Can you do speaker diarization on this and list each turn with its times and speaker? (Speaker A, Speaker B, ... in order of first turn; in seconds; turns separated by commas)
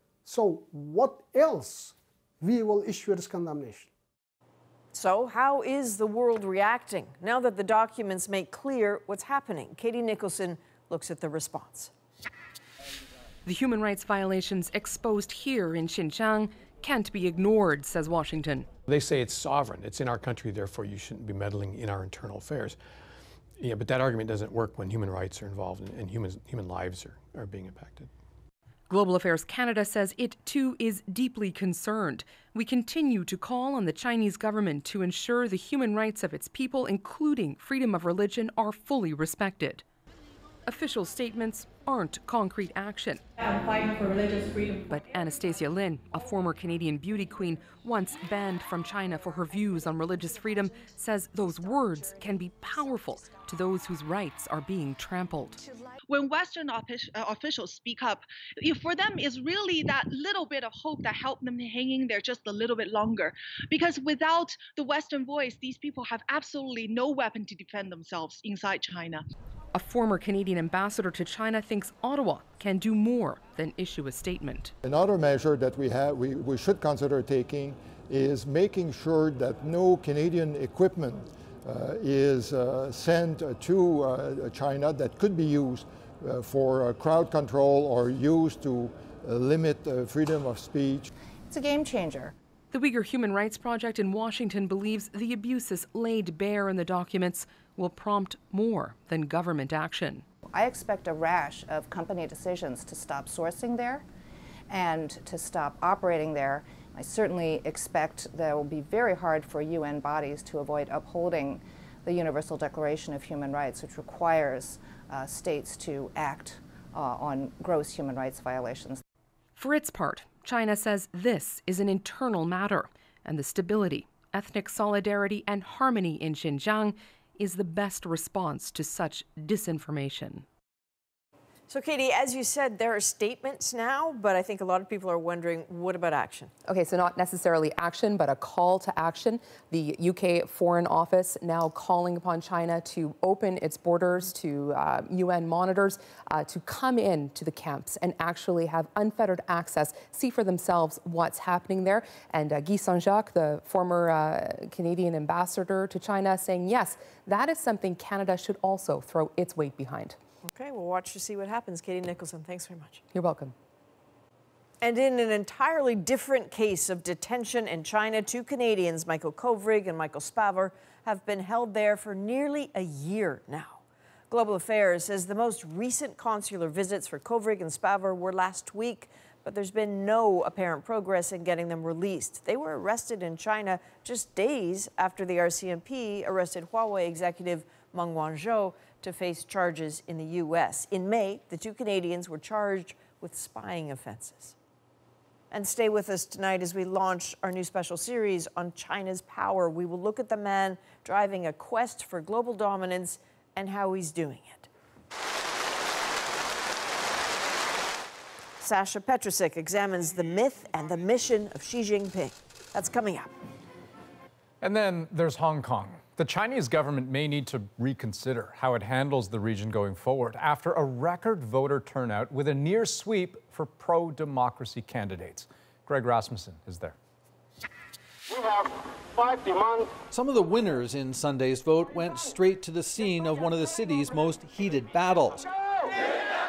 Speaker A: 0.2-3.9, Speaker B: 4.9-11.9, Speaker C: 13.4-18.7, Speaker D: 18.9-22.8, Speaker D: 23.6-28.1, Speaker C: 28.9-39.8, Speaker C: 40.6-43.2, Speaker E: 43.4-44.9, Speaker C: 44.9-55.6, Speaker E: 56.1-69.2, Speaker C: 69.7-74.7, Speaker F: 74.8-91.1, Speaker G: 91.5-92.3, Speaker C: 92.7-100.2, Speaker G: 100.5-104.0, Speaker G: 104.7-119.0, Speaker C: 119.5-130.4, Speaker B: 131.7-136.5, Speaker H: 136.7-160.2, Speaker B: 160.4-163.0, Speaker H: 163.1-163.5, Speaker B: 164.8-194.6, Speaker B: 195.5-204.7, Speaker B: 208.6-213.3, Speaker I: 214.6-226.9, Speaker J: 230.1-235.5